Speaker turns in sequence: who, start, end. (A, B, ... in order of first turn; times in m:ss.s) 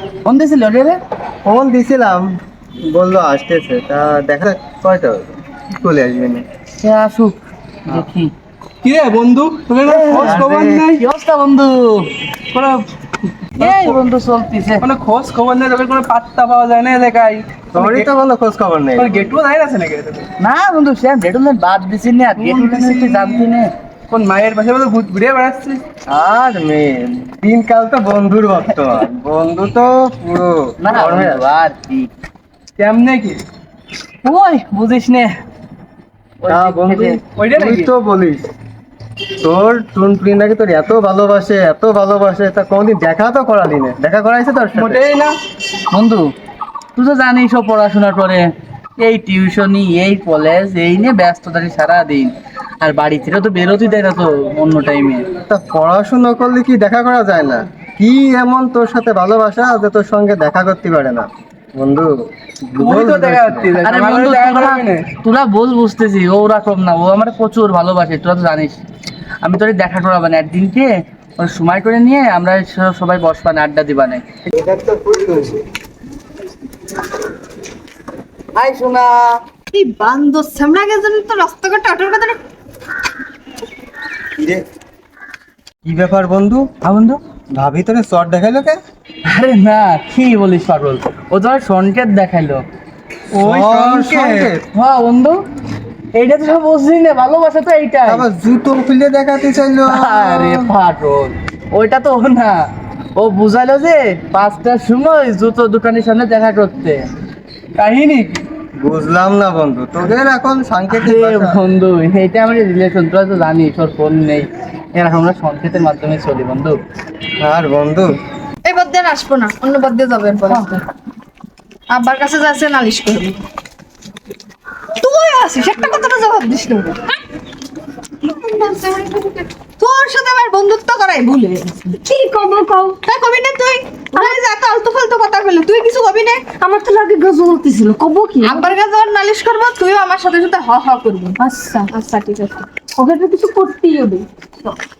0:00.2-0:01.0 A
0:01.4-0:06.4 B
0:06.8-0:07.3 A
0:07.9-0:08.3 A
0:08.8-0:11.0 C
0:09.8-0:10.4 A
0:10.1-0:10.8 B
0:11.0-0:12.1 A
0:12.5-0:12.8 C
0:13.5-0:14.0 C
0:13.6-0:14.8 A
0:14.8-0:18.1 C
0:17.7-0:19.3 B
0:19.0-0:20.3 C
0:20.4-0:23.7 A
0:22.4-0:23.4 C
0:24.1-0:25.8 C
0:26.1-0:31.4 B
0:30.8-0:32.1 A
0:32.8-0:33.4 C
0:34.2-0:35.3 A
0:36.4-0:37.2 A
0:36.5-0:38.5 B
0:37.2-0:37.9 C
0:39.4-0:45.0 B
0:44.7-0:45.4 C
0:45.9-0:46.3 A
0:47.0-0:48.4 A
0:49.0-0:55.2 A
0:55.5-1:02.1 B
1:02.7-1:03.7 B
1:02.8-1:05.1 C
1:03.8-1:08.8 A
1:09.4-1:14.2 A
1:14.5-1:15.6 B
1:18.5-1:19.4 A
1:19.7-1:22.4 D
1:25.8-1:26.6 B
1:26.8-1:27.2 A
1:27.5-1:28.8 B
1:29.3-1:32.6 A
1:33.4-1:33.8 C
1:33.4-1:34.6 B
1:33.5-1:35.4 A
1:36.1-1:38.2 A
1:38.1-1:40.7 B
1:39.9-1:42.6 A
1:43.2-1:47.0 A
1:47.8-1:48.4 A
1:48.8-1:51.6 B
1:50.9-1:56.8 A
1:57.4-1:58.2 B
1:58.6-2:00.8 D
2:01.9-2:03.4 D
2:05.0-2:07.2 D
2:08.2-2:12.0 D
2:12.0-2:13.0 E
2:13.0-2:16.5 D
2:14.1-2:14.4 E
2:16.5-2:18.7 E
2:18.4-2:21.4 D
2:21.4-2:21.9 E
2:21.9-2:22.6 D
2:23.0-2:24.8 E